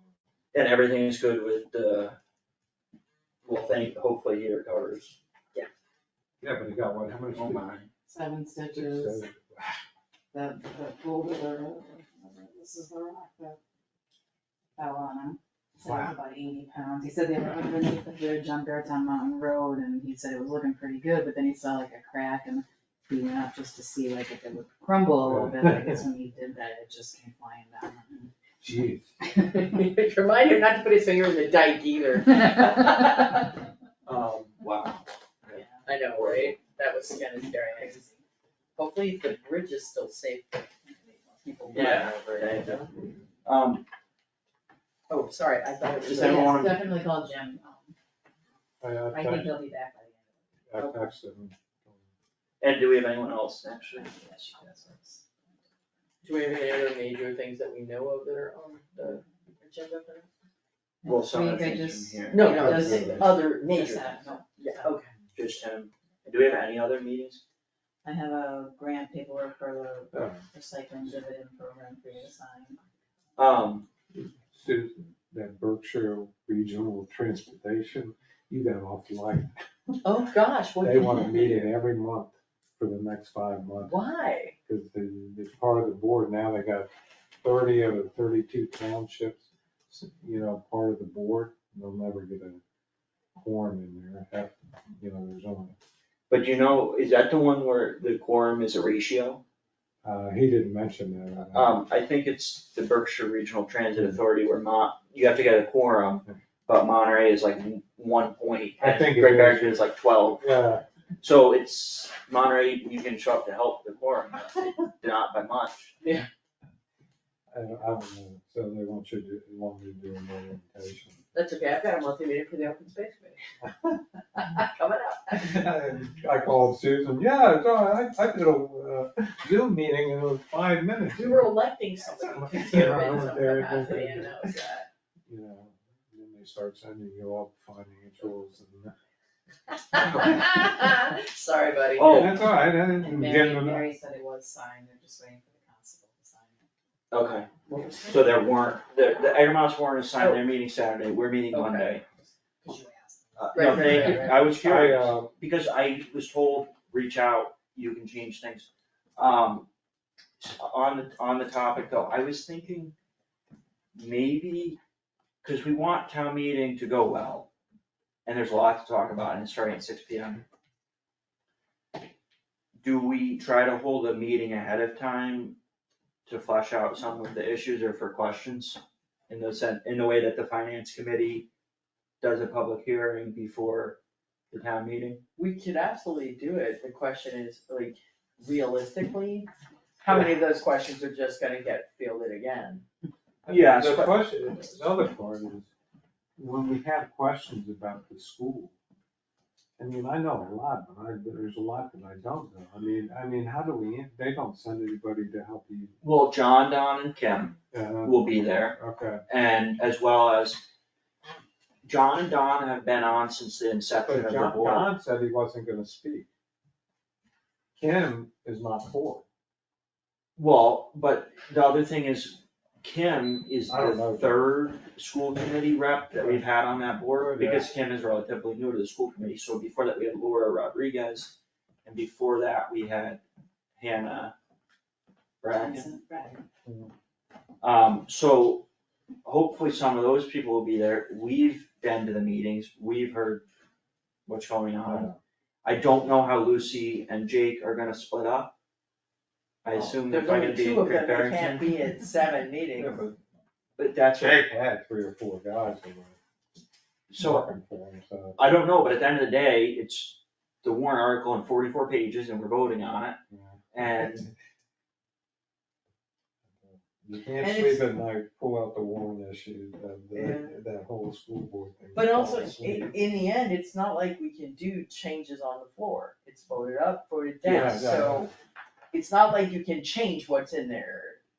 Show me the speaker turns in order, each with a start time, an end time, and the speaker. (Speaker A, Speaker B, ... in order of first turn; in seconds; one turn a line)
Speaker A: 0.5-2.2
Speaker A: 3.5-5.2
Speaker B: 6.4-7.7
Speaker A: 7.3-7.9
Speaker C: 8.1-9.3
Speaker B: 8.7-9.7
Speaker C: 10.3-13.6
Speaker C: 14.8-28.3
Speaker B: 15.8-16.1
Speaker B: 25.2-26.0
Speaker B: 28.6-29.1
Speaker D: 29.5-33.4
Speaker C: 32.8-33.2
Speaker A: 34.1-36.5
Speaker C: 35.5-35.9
Speaker D: 35.9-38.0
Speaker C: 37.4-38.2
Speaker D: 38.8-42.9
Speaker A: 41.7-42.8
Speaker A: 43.5-43.9
Speaker D: 45.1-46.6
Speaker A: 46.0-46.8
Speaker C: 46.2-47.9
Speaker B: 48.8-49.5
Speaker C: 49.1-50.3
Speaker B: 50.7-52.0
Speaker D: 50.8-51.0
Speaker A: 52.6-54.1
Speaker C: 53.9-55.5
Speaker D: 56.2-60.3
Speaker C: 61.0-65.1
Speaker A: 61.0-62.6
Speaker D: 62.3-65.1
Speaker B: 62.5-63.3
Speaker A: 65.3-67.4
Speaker C: 68.0-72.8
Speaker B: 70.1-70.4
Speaker A: 73.4-73.9
Speaker B: 74.1-79.9
Speaker D: 80.0-81.6
Speaker B: 80.8-84.0
Speaker D: 83.8-84.5
Speaker B: 84.7-86.9
Speaker B: 87.4-92.6
Speaker B: 93.4-95.8
Speaker A: 96.3-99.4
Speaker B: 100.0-101.8
Speaker A: 101.5-110.5
Speaker B: 108.8-109.8
Speaker B: 110.4-110.8
Speaker A: 111.2-115.9
Speaker D: 116.0-116.3
Speaker B: 117.5-121.2
Speaker D: 121.3-123.4
Speaker B: 123.6-124.0
Speaker D: 124.4-125.6
Speaker B: 125.3-131.5
Speaker D: 131.1-134.9
Speaker B: 132.2-134.4
Speaker B: 135.3-138.9
Speaker D: 139.9-142.4
Speaker A: 142.0-142.4
Speaker B: 142.0-143.9
Speaker C: 142.6-146.6
Speaker A: 147.1-147.5
Speaker D: 147.7-148.1
Speaker A: 148.0-152.0
Speaker D: 150.2-150.4
Speaker D: 151.5-151.9
Speaker C: 151.6-154.6
Speaker A: 153.4-159.7
Speaker D: 153.5-154.2
Speaker B: 153.9-155.3
Speaker A: 160.4-162.9
Speaker A: 163.9-164.8
Speaker A: 165.4-167.5
Speaker A: 168.3-170.4
Speaker A: 172.8-175.6
Speaker A: 176.3-181.5
Speaker A: 182.2-184.0
Speaker A: 184.5-185.2
Speaker D: 185.4-192.8
Speaker B: 193.4-195.7
Speaker A: 193.5-194.3
Speaker B: 196.4-198.8
Speaker B: 199.8-205.9
Speaker A: 206.0-208.8
Speaker B: 207.7-209.2
Speaker A: 209.3-210.6
Speaker A: 211.8-214.9
Speaker B: 214.1-216.3
Speaker B: 217.8-219.2
Speaker A: 220.4-233.2
Speaker B: 223.7-224.4
Speaker B: 226.2-226.4
Speaker B: 227.2-227.7
Speaker A: 233.8-234.3
Speaker A: 235.4-235.9
Speaker C: 235.5-236.4
Speaker B: 236.7-236.9
Speaker A: 237.6-238.7
Speaker A: 239.2-243.4
Speaker A: 244.3-245.1
Speaker B: 244.8-245.2
Speaker A: 245.6-248.5
Speaker A: 249.6-251.7
Speaker D: 249.7-253.0
Speaker B: 252.7-253.2
Speaker A: 253.8-254.5
Speaker B: 254.2-256.2
Speaker A: 257.1-257.5
Speaker B: 257.2-258.4
Speaker A: 258.4-263.2
Speaker B: 263.3-264.3
Speaker A: 263.7-264.3
Speaker B: 266.6-272.9
Speaker D: 267.4-267.9
Speaker D: 270.1-270.6
Speaker D: 271.9-278.3
Speaker B: 277.4-278.3
Speaker D: 278.9-281.2